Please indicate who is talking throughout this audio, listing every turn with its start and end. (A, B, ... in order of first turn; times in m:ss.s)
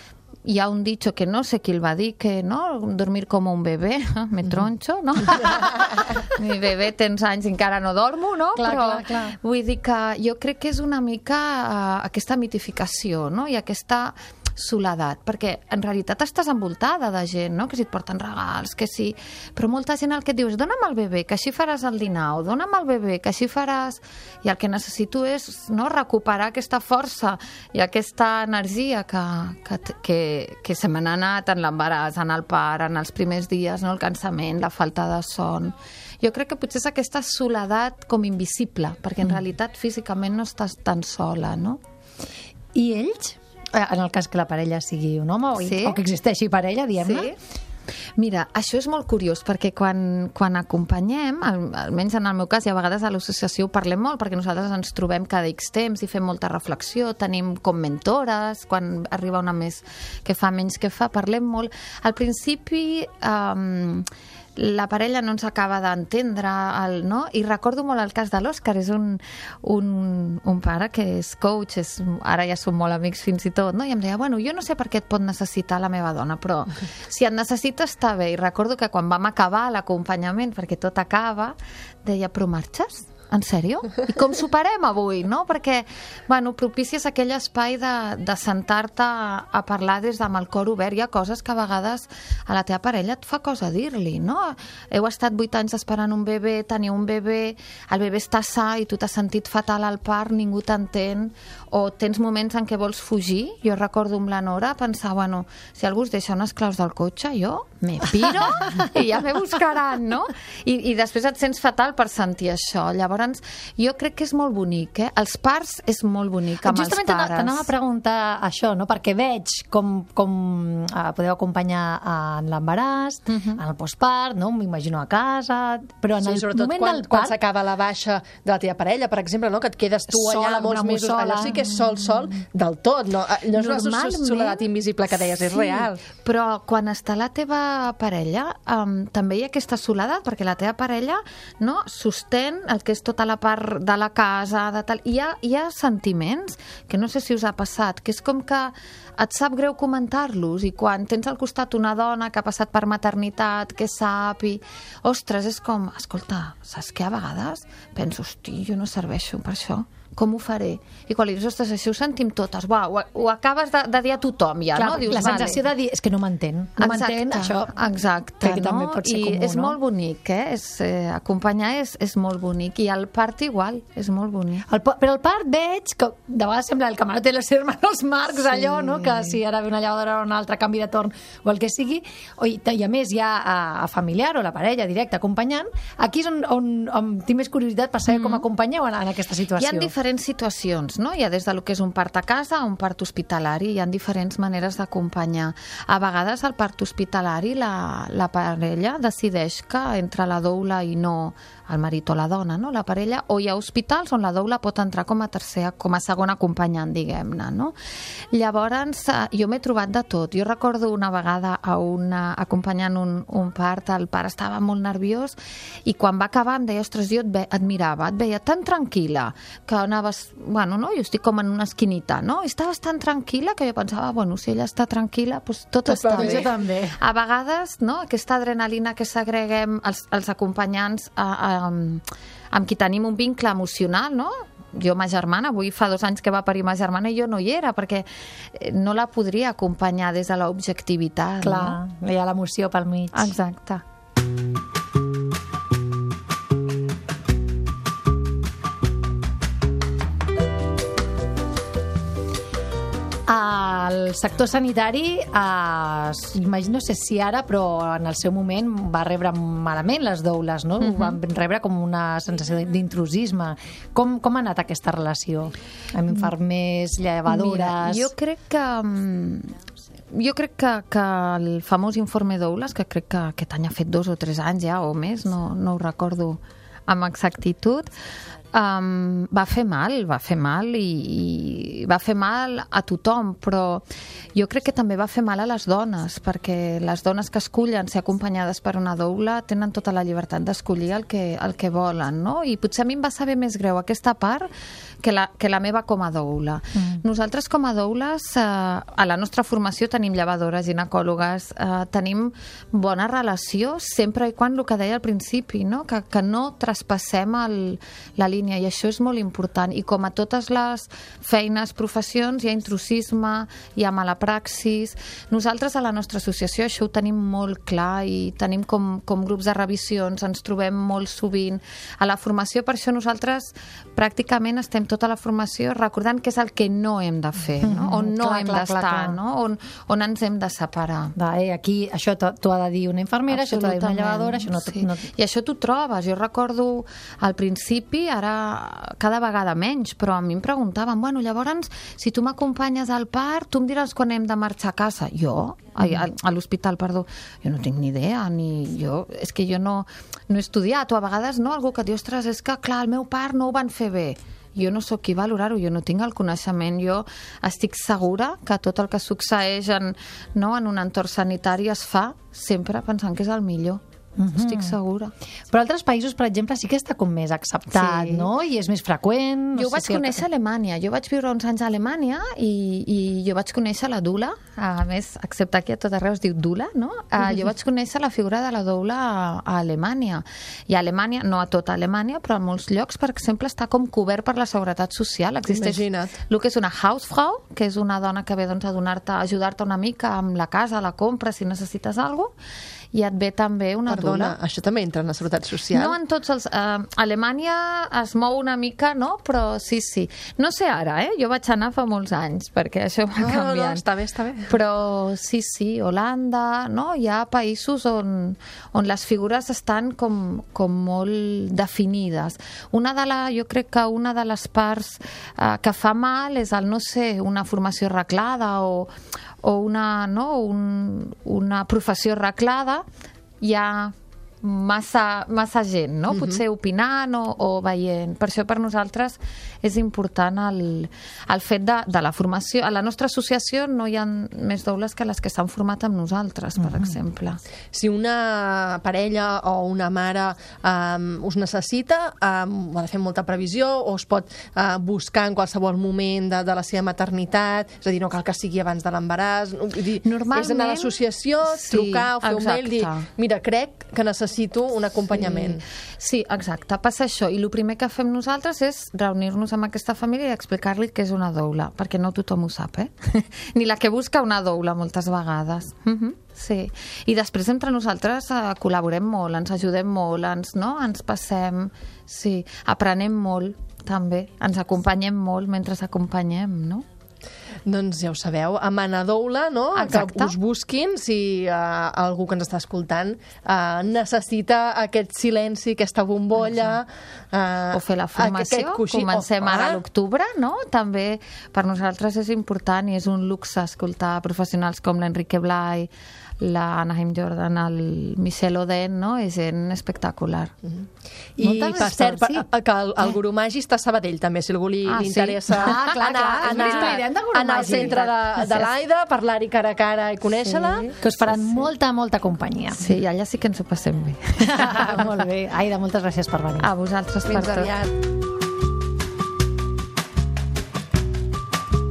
0:00.4-0:41.8 A
0:08.6-0:09.4 B
0:42.7-0:47.3 B
0:45.6-0:46.0 A
0:47.0-0:47.4 A
0:48.2-1:57.7 A
1:48.2-1:48.9 B
1:56.6-2:07.4 B
2:03.3-2:03.6 A
2:06.2-2:16.0 C
2:10.1-2:11.6 B
2:13.5-2:14.7 A
2:15.3-2:45.6 A
2:44.7-2:47.8 B
2:46.8-2:54.6 A
2:48.4-2:49.8 B
2:54.7-3:09.9 B
3:08.1-3:08.4 A
3:09.6-3:27.7 A
3:28.3-4:01.8 A
3:45.8-3:47.0 B
3:46.2-3:46.4 C
4:01.4-4:03.3 B
4:03.1-4:03.8 A
4:13.3-4:28.1 B
4:20.8-4:21.2 A
4:27.3-4:29.6 A
4:30.1-4:37.9 A
4:38.5-4:54.5 A
4:55.0-5:31.1 A
4:56.7-4:57.0 B
5:27.6-5:29.2 B
5:31.2-5:35.1 B
5:33.3-6:03.8 A
6:04.2-6:04.8 B
6:04.3-6:05.1 A
6:05.5-6:10.2 B
6:07.7-6:08.3 A
6:09.5-6:32.3 A
6:25.5-6:26.1 C
6:32.9-6:34.4 A
6:33.9-6:36.0 C
6:35.7-6:43.8 A
6:43.2-6:44.5 C
6:44.5-7:02.8 A
7:03.4-7:17.4 A
7:06.1-7:06.4 C
7:16.6-7:16.9 B
7:17.7-7:35.6 C
7:30.0-7:33.1 A
7:35.1-7:56.8 A
7:57.6-8:09.8 C
7:59.7-8:00.4 A
8:07.7-8:20.5 A
8:21.4-8:31.6 C
8:21.4-8:22.4 B
8:24.9-8:27.0 A
8:25.5-8:28.7 B
8:27.6-8:28.0 A
8:30.4-8:32.8 B
8:32.8-8:35.1 A
8:34.4-8:36.7 B
8:36.6-8:37.7 A
8:37.2-8:37.9 C